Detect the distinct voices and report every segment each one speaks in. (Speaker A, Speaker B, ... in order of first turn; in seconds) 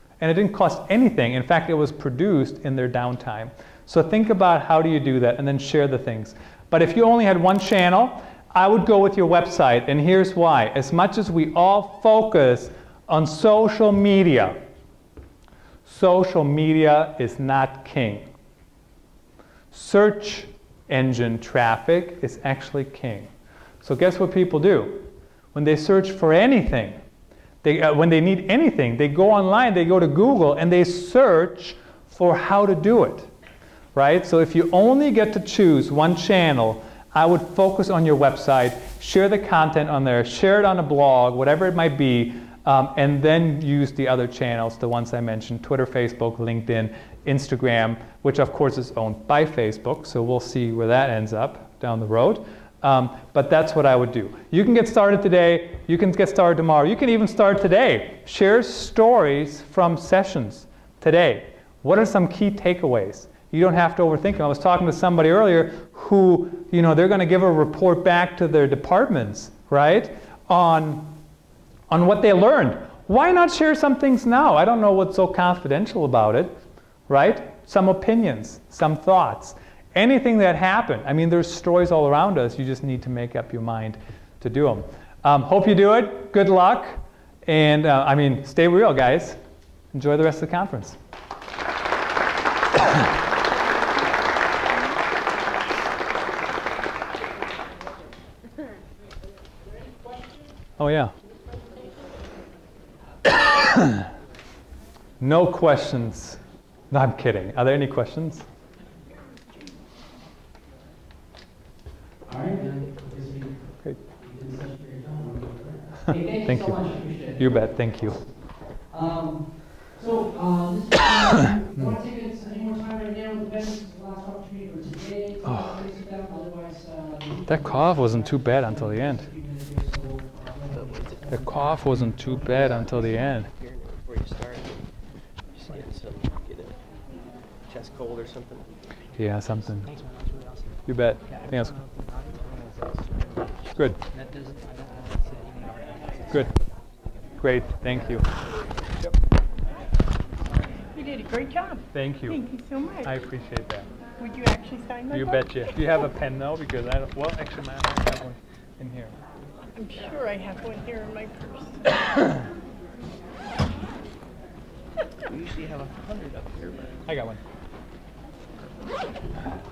Speaker A: 0.2-14.6, 15.9-18.3, 19.7-23.3, 23.8-27.0, 27.6-33.3, 33.9-71.2, 71.9-76.5, 77.1-89.4, 89.9-91.0, 100.8-101.1, 103.3-104.0, 105.2-106.4, 106.9-108.5, 116.4-116.8, 117.4-118.2, 125.4-125.9, 127.5-129.3, 131.3-133.5, 139.2-139.9, 140.9-141.7, 143.7-144.0, 147.4-148.3, 151.9-152.4, 153.0-153.9, 155.1-159.2, 167.1-167.4
Speaker B: 112.3-117.4, 118.9-133.1, 139.8-143.5, 144.1-146.6
Speaker C: 130.7-131.7, 132.3-134.9, 135.5-136.8, 137.7-138.7, 165.3-167.0
Speaker D: 150.9-153.1, 154.2-156.0, 159.8-161.9